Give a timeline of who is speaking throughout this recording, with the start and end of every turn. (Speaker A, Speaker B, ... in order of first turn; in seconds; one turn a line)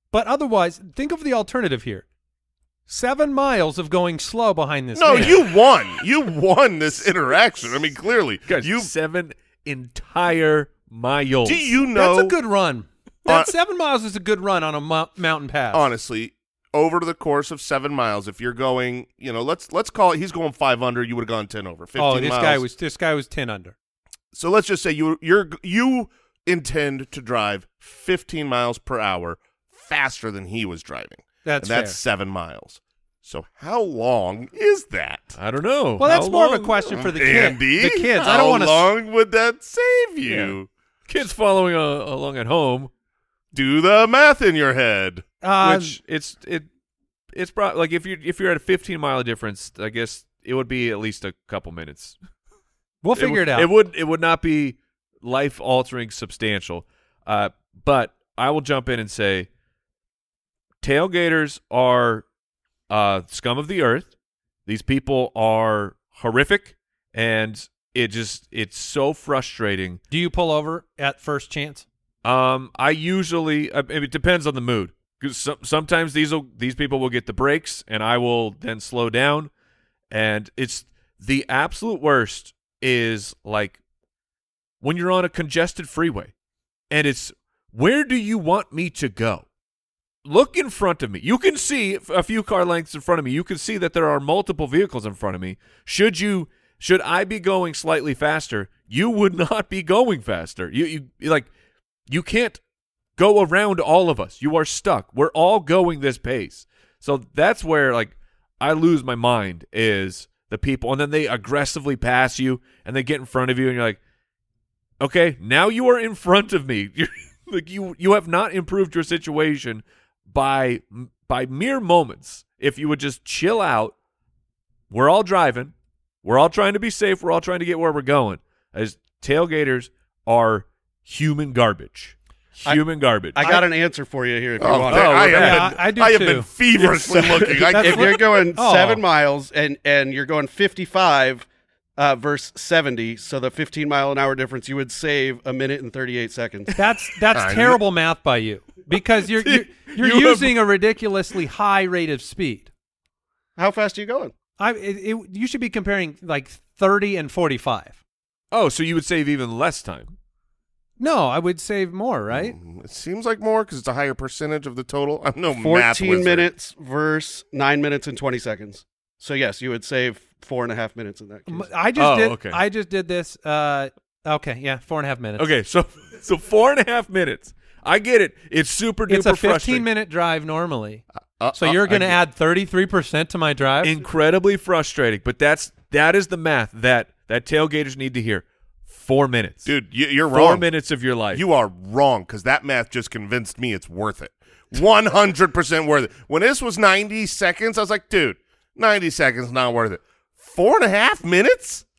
Speaker A: 0.1-2.0
Speaker A: 2.9-5.4
Speaker B: 5.0-8.9
Speaker C: 8.5-11.7
Speaker B: 11.4-12.3
Speaker A: 11.9-15.9
Speaker B: 13.3-13.5
Speaker B: 15.7-22.7
Speaker A: 22.0-23.8
Speaker B: 24.3-35.4
Speaker A: 31.4-32.0
Speaker C: 35.4-36.8
Speaker A: 36.0-38.9
Speaker B: 36.9-40.7
Speaker C: 40.3-40.6
Speaker C: 41.1-42.9
Speaker B: 43.5-45.2
Speaker A: 45.4-46.0
Speaker C: 45.6-46.7
Speaker C: 47.3-52.2
Speaker A: 53.0-53.7
Speaker C: 53.2-59.5
Speaker C: 60.8-62.2
Speaker C: 62.9-64.1
Speaker C: 64.7-70.0
Speaker A: 70.1-71.9
Speaker C: 72.2-79.5
Speaker C: 80.1-83.8
Speaker C: 84.8-86.3
Speaker C: 86.9-89.5
Speaker C: 90.2-101.5
Speaker C: 102.1-102.6
Speaker C: 103.2-114.0
Speaker C: 115.0-124.0
Speaker C: 124.9-133.6
Speaker D: 132.7-135.3
Speaker A: 133.4-133.7
Speaker B: 134.6-138.2
Speaker C: 134.8-135.7
Speaker A: 135.3-136.5
Speaker D: 136.8-146.7
Speaker A: 137.5-139.0
Speaker A: 146.8-152.7
Speaker B: 147.3-147.8
Speaker C: 149.4-150.6
Speaker D: 153.6-154.3
Speaker A: 154.6-158.0
Speaker C: 158.5-160.1
Speaker A: 161.0-162.6
Speaker B: 162.3-166.5
Speaker D: 165.6-171.7
Speaker A: 171.5-175.5
Speaker C: 172.0-172.6
Speaker C: 175.4-179.9
Speaker A: 179.1-181.0
Speaker B: 181.4-182.2
Speaker A: 181.6-183.9
Speaker C: 183.8-189.7
Speaker B: 189.7-190.7
Speaker C: 190.3-191.4
Speaker B: 191.3-201.8